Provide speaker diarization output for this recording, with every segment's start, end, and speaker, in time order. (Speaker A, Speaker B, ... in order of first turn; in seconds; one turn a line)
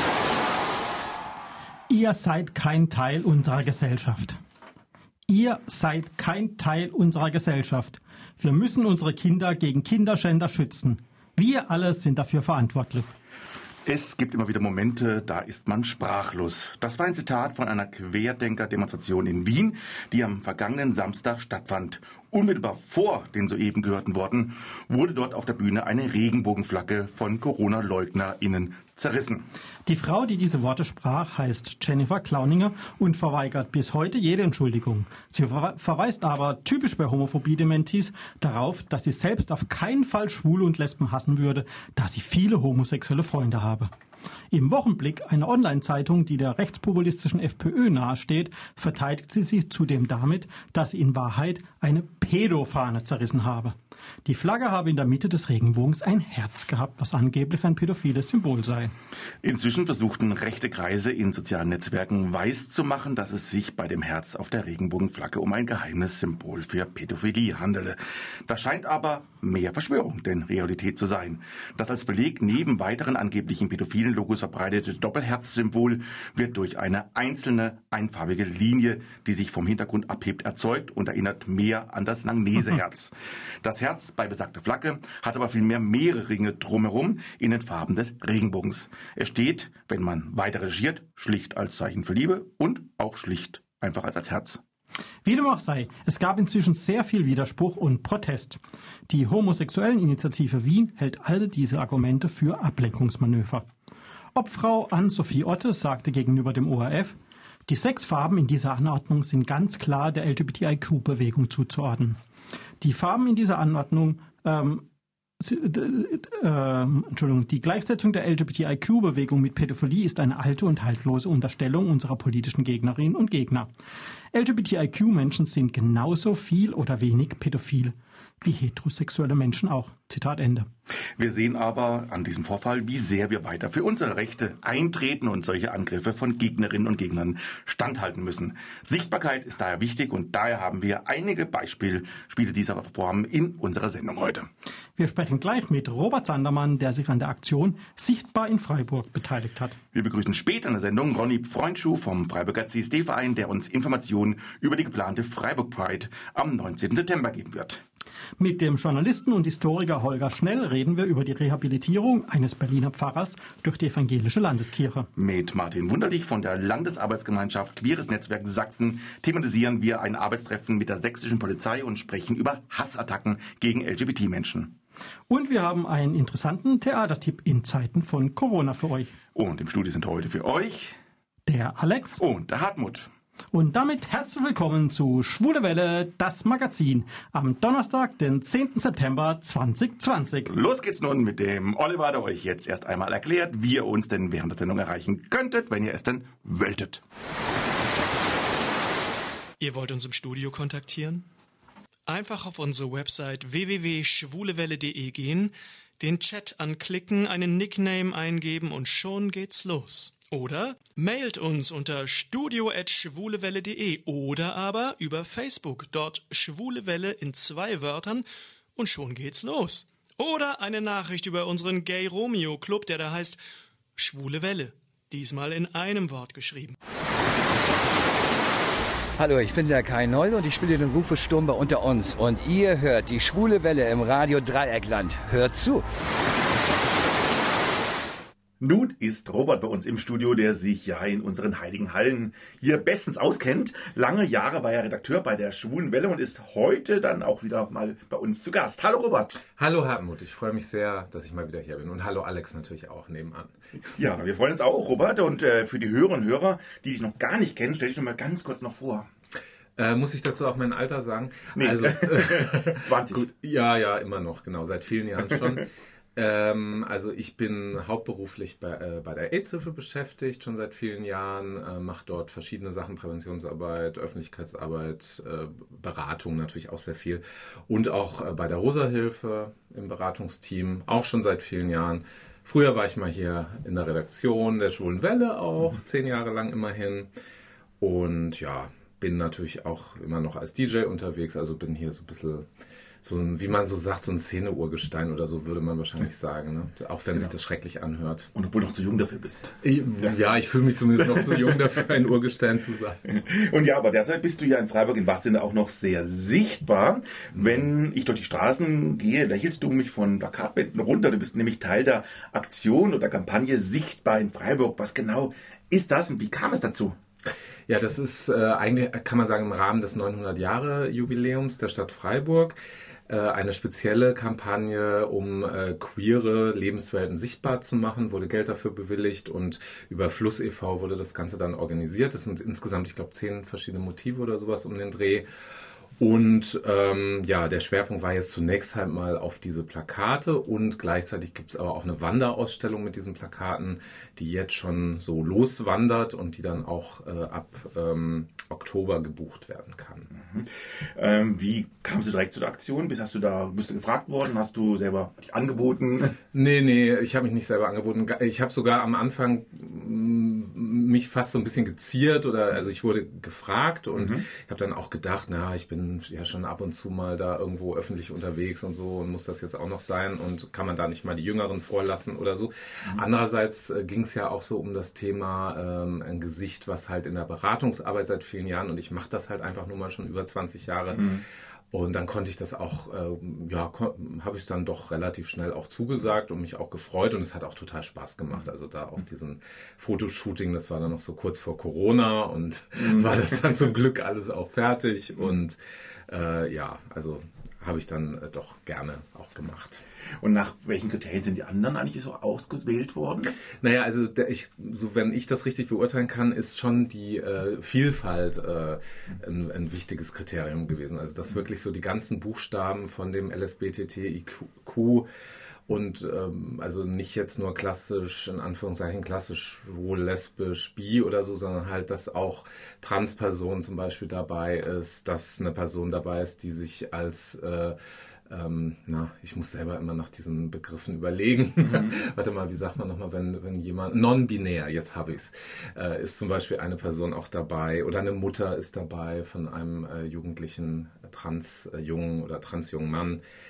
Speaker A: 1.9-4.4
Speaker A: 5.3-13.1
Speaker B: 13.8-29.5
Speaker A: 29.9-43.9
Speaker A: 44.5-58.9
Speaker B: 59.4-94.6
Speaker A: 95.2-103.7
Speaker A: 104.3-107.2
Speaker A: 107.7-112.2
Speaker A: 112.8-114.9
Speaker A: 115.4-123.7
Speaker A: 124.3-130.7
Speaker B: 131.2-144.5
Speaker A: 145.0-149.8
Speaker B: 149.9-157.8
Speaker A: 158.4-165.1
Speaker B: 165.2-174.8
Speaker A: 175.3-179.1
Speaker B: 179.3-181.0
Speaker A: 181.5-182.2
Speaker B: 182.2-183.1
Speaker A: 183.5-190.5
Speaker B: 190.5-197.0
Speaker C: 199.6-201.2
Speaker C: 202.1-218.2
Speaker C: 218.8-223.4
Speaker C: 224.0-226.8
Speaker D: 229.2-235.8
Speaker B: 238.6-249.4
Speaker E: 249.6-253.6
Speaker B: 253.9-259.1
Speaker E: 259.8-287.1
Speaker B: 261.5-263.3
Speaker E: 287.8-292.4
Speaker E: 293.0-298.3
Speaker B: 298.3-299.6
Speaker E: 299.6-303.1
Speaker B: 301.0-301.6
Speaker B: 303.0-317.0
Speaker E: 317.7-322.6
Speaker E: 323.1-335.2
Speaker E: 336.0-350.1
Speaker B: 350.1-356.2
Speaker E: 356.3-381.2
Speaker B: 363.9-364.2
Speaker B: 380.9-381.2
Speaker E: 381.7-399.8
Speaker B: 392.8-393.3
Speaker B: 400.2-403.4
Speaker E: 403.5-415.1
Speaker E: 415.7-427.8
Speaker E: 428.3-443.2
Speaker B: 431.6-432.0